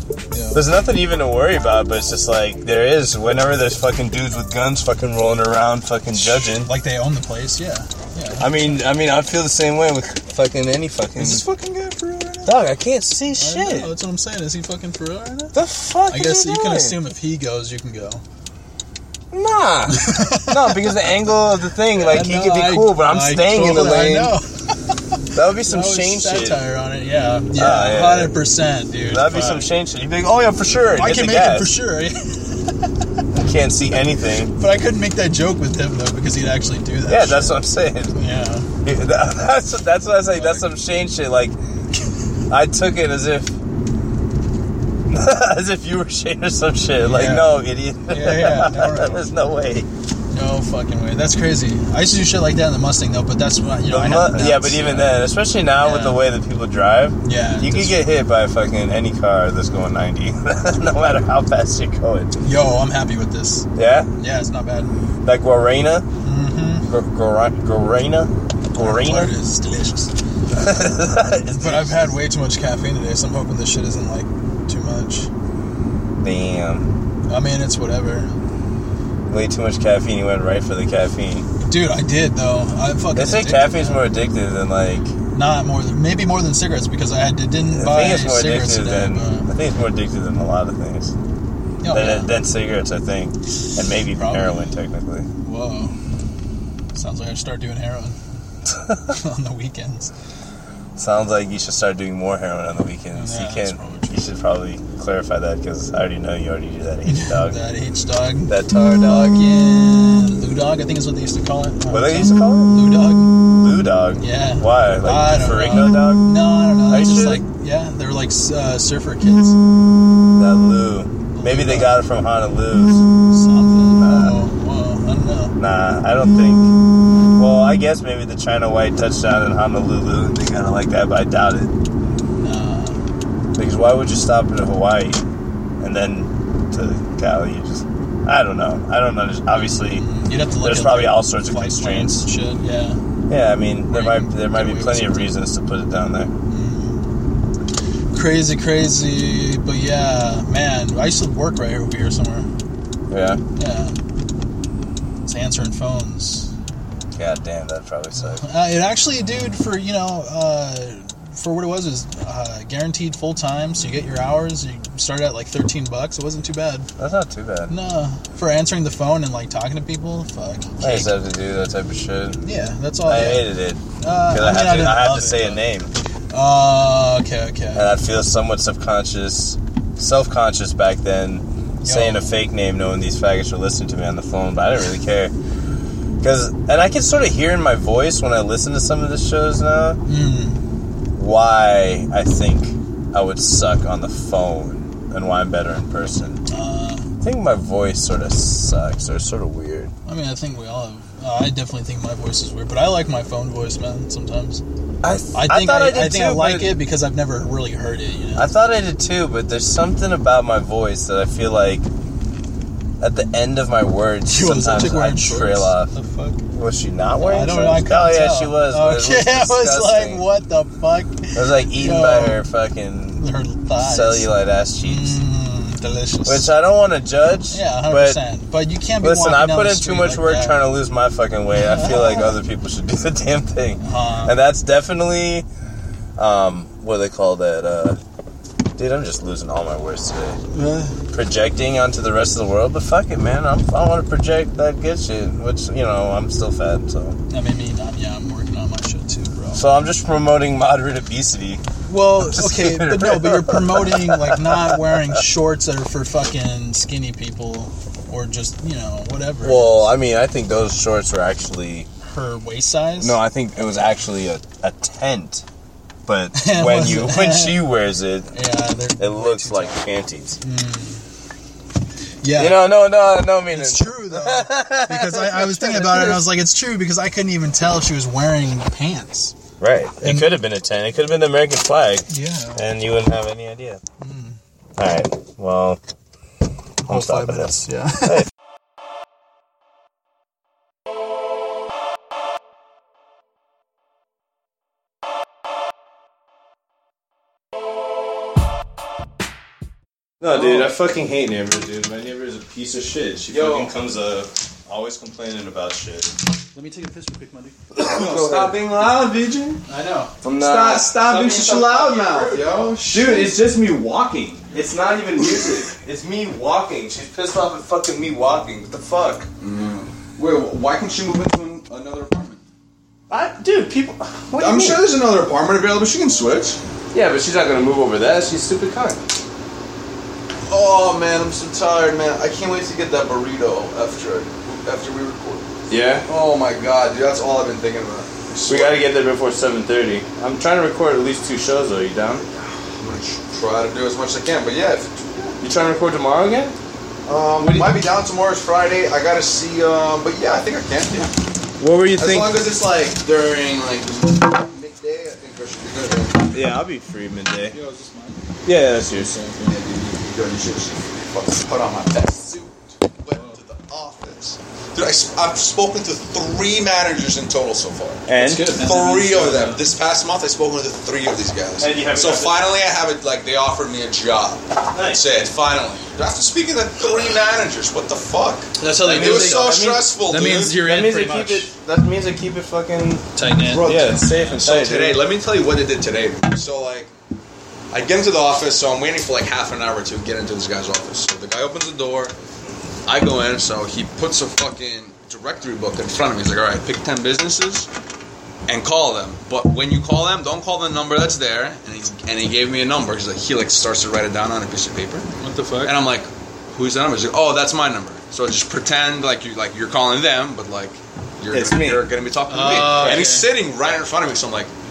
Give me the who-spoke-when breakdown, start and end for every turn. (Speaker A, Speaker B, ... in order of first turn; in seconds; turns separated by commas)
Speaker A: 0.3-0.7, Speaker B: 0.5-6.7, Speaker A: 6.1-8.8, Speaker B: 8.4-11.4, Speaker C: 11.2-12.6, Speaker B: 12.4-13.9, Speaker A: 13.4-18.2, Speaker B: 15.5-17.0, Speaker B: 19.3-24.4, Speaker A: 19.9-20.9, Speaker A: 21.9-24.5, Speaker B: 25.3-26.6, Speaker A: 25.7-29.7, Speaker B: 27.6-28.4, Speaker B: 29.1-31.7, Speaker A: 30.9-32.9, Speaker B: 33.4-34.5, Speaker A: 34.5-38.7, Speaker B: 37.1-38.1, Speaker B: 38.8-41.5, Speaker A: 40.3-40.6, Speaker B: 42.5-43.5, Speaker B: 45.1-49.9, Speaker A: 47.0-49.2, Speaker A: 50.3-55.2, Speaker B: 53.9-62.3, Speaker A: 55.8-56.2, Speaker A: 57.2-58.0, Speaker A: 62.5-63.7, Speaker B: 63.8-64.1, Speaker A: 64.2-65.0, Speaker B: 65.2-66.1, Speaker A: 66.2-66.9, Speaker B: 66.9-69.3, Speaker A: 68.8-70.1, Speaker B: 70.5-72.1, Speaker A: 71.6-75.3, Speaker B: 76.2-77.0, Speaker A: 77.3-78.3, Speaker B: 79.3-81.5, Speaker A: 81.6-84.0, Speaker B: 83.2-85.1, Speaker A: 85.3-89.5, Speaker B: 87.7-91.1, Speaker A: 91.8-92.3, Speaker B: 91.9-95.3, Speaker A: 94.2-94.7, Speaker A: 95.4-96.0, Speaker A: 97.0-98.2, Speaker B: 98.7-99.1, Speaker A: 99.1-100.1, Speaker B: 101.0-107.6, Speaker A: 103.1-104.2, Speaker A: 107.1-113.4, Speaker B: 108.5-109.5, Speaker B: 111.9-116.3, Speaker A: 114.2-119.6, Speaker B: 116.9-117.4, Speaker B: 120.4-123.1, Speaker A: 121.3-121.9, Speaker A: 123.2-125.6, Speaker B: 124.0-124.4, Speaker B: 125.6-126.7, Speaker B: 127.3-131.8, Speaker A: 132.4-133.0, Speaker B: 133.6-135.2, Speaker B: 135.8-140.1, Speaker A: 139.8-143.0, Speaker B: 140.6-142.2, Speaker B: 143.3-146.3, Speaker A: 143.9-145.3, Speaker A: 146.5-147.0, Speaker A: 148.1-152.5, Speaker B: 153.1-153.4, Speaker A: 153.6-154.0, Speaker A: 155.2-156.5, Speaker B: 157.2-158.4, Speaker A: 158.2-166.9, Speaker B: 167.0-167.7, Speaker A: 167.7-171.1, Speaker B: 170.8-172.4, Speaker A: 172.4-175.6, Speaker B: 173.1-175.9, Speaker A: 176.3-177.9, Speaker B: 177.8-185.3, Speaker A: 181.8-182.3, Speaker B: 186.2-190.0, Speaker A: 190.1-190.6, Speaker B: 191.2-196.4, Speaker A: 196.5-197.1, Speaker B: 197.2-199.9, Speaker A: 200.1-204.6, Speaker B: 205.0-206.7, Speaker A: 205.3-208.5, Speaker B: 208.4-211.8, Speaker B: 213.0-215.9, Speaker A: 214.3-216.4, Speaker B: 216.5-220.2, Speaker A: 217.2-222.4, Speaker B: 221.3-223.2, Speaker A: 223.2-224.3, Speaker B: 223.8-225.2, Speaker A: 224.8-226.5, Speaker B: 226.3-228.2, Speaker A: 227.5-230.6, Speaker B: 229.0-235.5, Speaker A: 231.6-232.3, Speaker A: 233.8-234.4, Speaker B: 236.2-238.0, Speaker B: 238.8-240.4, Speaker A: 240.5-241.0, Speaker B: 241.1-247.2, Speaker A: 247.3-249.6, Speaker B: 249.5-251.6, Speaker A: 251.9-259.9, Speaker B: 252.2-255.2, Speaker B: 259.4-261.9, Speaker A: 262.1-263.2, Speaker B: 263.0-265.4, Speaker B: 266.1-268.3, Speaker A: 266.3-267.6, Speaker A: 268.3-269.8, Speaker B: 269.0-270.4, Speaker A: 270.4-271.0, Speaker A: 272.2-272.7, Speaker B: 272.4-276.3, Speaker A: 273.5-279.4, Speaker B: 279.6-283.8, Speaker A: 280.0-280.4, Speaker A: 282.1-282.6, Speaker A: 284.0-284.4, Speaker B: 284.8-285.8, Speaker A: 286.8-288.2, Speaker B: 286.9-288.2, Speaker B: 300.2-306.1, Speaker C: 303.3-303.7, Speaker A: 306.5-307.6, Speaker B: 307.8-308.6, Speaker C: 307.8-309.6, Speaker A: 309.7-310.1, Speaker B: 310.2-311.5, Speaker C: 310.4-313.3, Speaker A: 311.1-312.8, Speaker B: 312.9-319.3, Speaker C: 319.4-322.4, Speaker B: 323.1-324.9, Speaker C: 324.4-326.6, Speaker B: 326.9-329.0, Speaker C: 330.5-335.5, Speaker B: 335.7-336.1, Speaker C: 336.1-338.8, Speaker B: 338.5-342.2, Speaker C: 342.8-345.4, Speaker B: 345.4-346.6, Speaker C: 347.1-351.2, Speaker B: 347.4-347.8, Speaker B: 351.6-352.4, Speaker C: 352.0-356.3, Speaker B: 356.3-357.6, Speaker A: 357.5-358.2, Speaker B: 358.5-359.3, Speaker A: 359.1-359.5, Speaker C: 359.4-380.6, Speaker A: 363.1-363.4, Speaker B: 368.1-368.6, Speaker A: 368.2-369.6, Speaker B: 371.6-372.4, Speaker B: 374.7-375.0, Speaker A: 378.6-381.5, Speaker B: 378.8-379.9, Speaker B: 380.6-385.0, Speaker A: 383.2-384.3, Speaker C: 383.5-386.9, Speaker C: 387.7-392.1, Speaker C: 392.9-397.7, Speaker C: 398.5-405.1, Speaker A: 405.2-405.8, Speaker C: 405.6-414.5, Speaker B: 411.3-411.9, Speaker A: 412.3-413.3